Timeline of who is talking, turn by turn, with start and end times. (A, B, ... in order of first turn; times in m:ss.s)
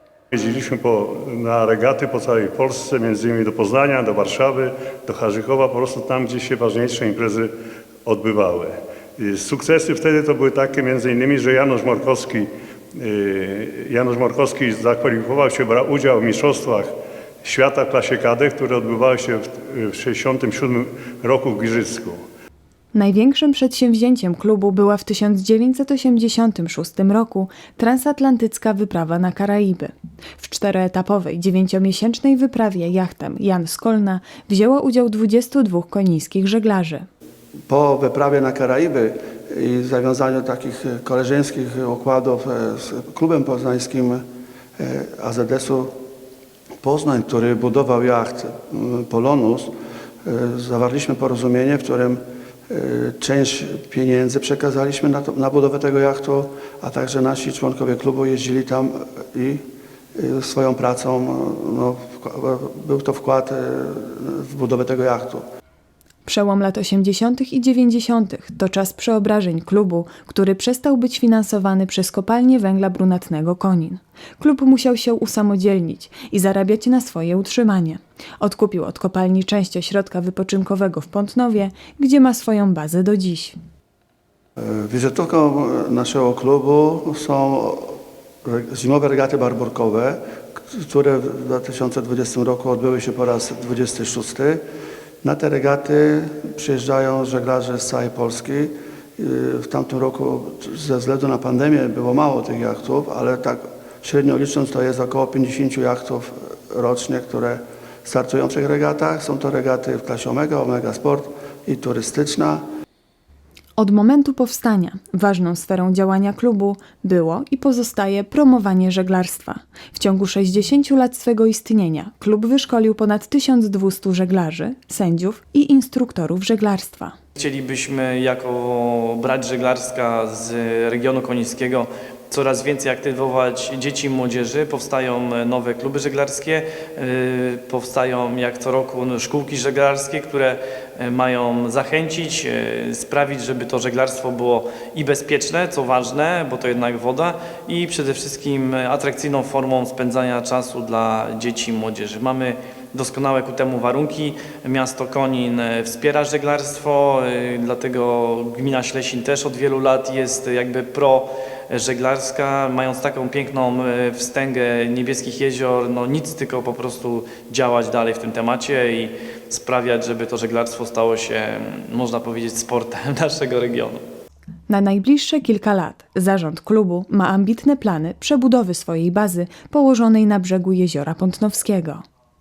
0:00.3-0:07.5 A
0:08.0-0:22.2 A
0:22.9-0:37.1 B
0:37.7-0:44.2 C
0:44.8-0:45.9 C
0:46.8-0:49.7 C
0:50.2-0:59.6 C
1:00.2-1:05.4 C
1:06.2-1:23.6 B
1:24.6-1:34.6 C
1:35.2-1:52.6 C
1:53.8-2:07.2 B
2:07.4-2:54.0 D
2:54.7-3:02.0 B